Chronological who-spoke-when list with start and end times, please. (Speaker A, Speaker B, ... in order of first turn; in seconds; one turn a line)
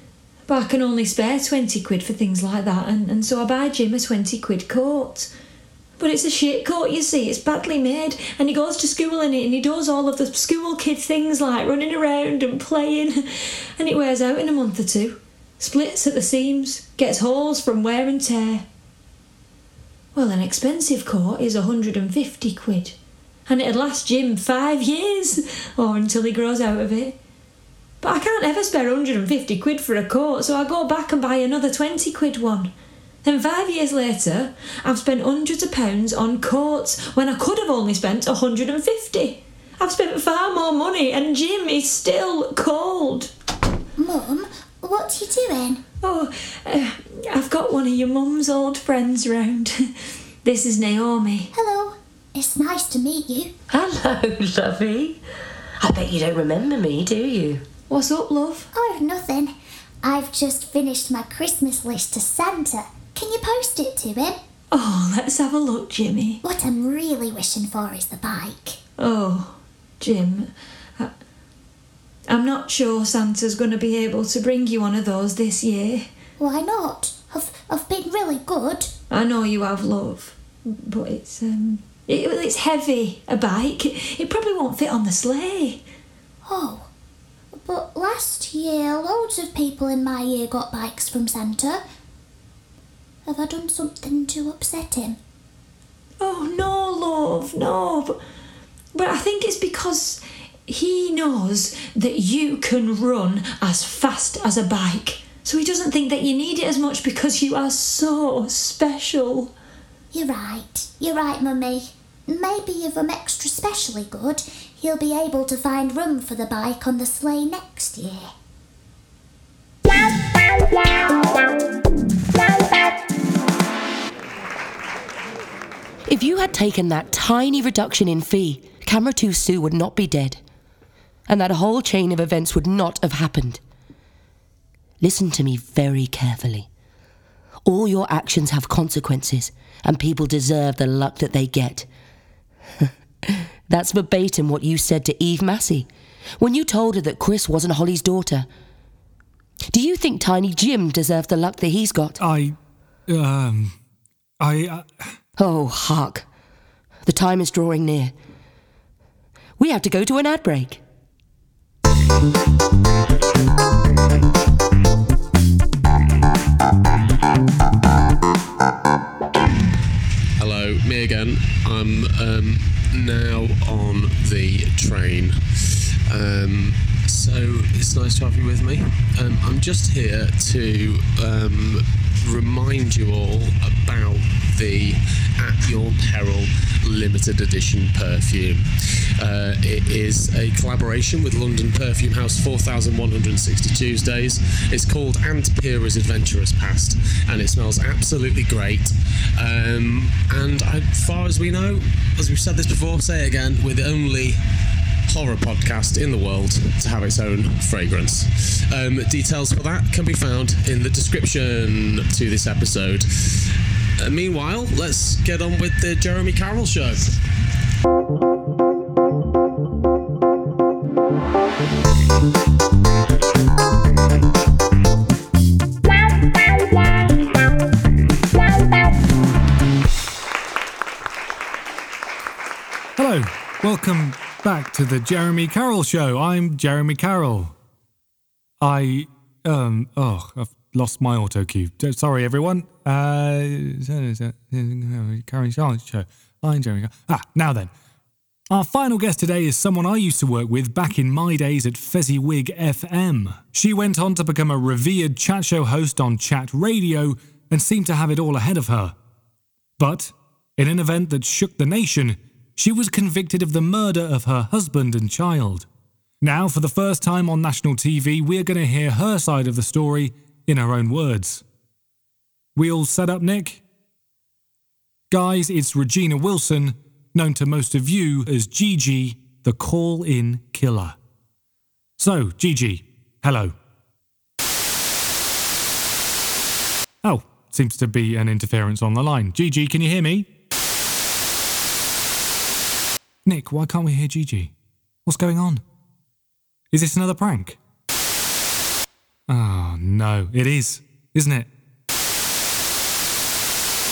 Speaker A: 0.5-5.3
Speaker A: 6.0-18.6
Speaker A: 20.1-23.0
Speaker A: 23.5-27.2
Speaker A: 28.0-32.7
Speaker A: 33.2-43.3
Speaker B: 44.0-45.8
Speaker A: 46.0-49.9
Speaker A: 50.4-51.5
Speaker B: 51.5-53.5
Speaker C: 53.7-55.2
Speaker C: 55.8-57.6
Speaker A: 57.9-58.7
Speaker B: 58.7-64.4
Speaker A: 64.7-66.4
Speaker B: 66.4-68.8
Speaker A: 69.0-71.1
Speaker A: 72.3-76.1
Speaker B: 76.4-78.9
Speaker A: 79.1-85.8
Speaker B: 86.5-86.9
Speaker B: 87.6-91.8
Speaker B: 93.3-95.2
Speaker A: 96.2-98.2
Speaker A: 98.9-109.5
Speaker B: 110.1-118.3
Speaker C: 126.1-130.4
Speaker C: 131.3-133.6
Speaker C: 135.0-136.7
Speaker C: 137.6-141.9
Speaker C: 143.3-145.9
Speaker C: 146.4-148.5
Speaker C: 149.7-152.2
Speaker D: 152.2-152.6
Speaker D: 153.1-153.8
Speaker D: 154.4-155.2
Speaker C: 155.4-156.2
Speaker C: 157.1-158.1
Speaker C: 159.6-160.8
Speaker E: 170.4-175.4
Speaker E: 176.1-204.4
Speaker E: 205.1-217.1
Speaker D: 233.0-237.5
Speaker D: 238.6-247.7
Speaker D: 248.5-258.9
Speaker D: 259.8-265.7
Speaker D: 266.2-271.4
Speaker D: 272.6-273.6
Speaker D: 275.1-281.0
Speaker D: 282.0-283.6
Speaker D: 287.0-290.3
Speaker D: 293.2-294.5
Speaker D: 295.1-295.6
Speaker D: 296.7-297.6
Speaker D: 299.3-301.5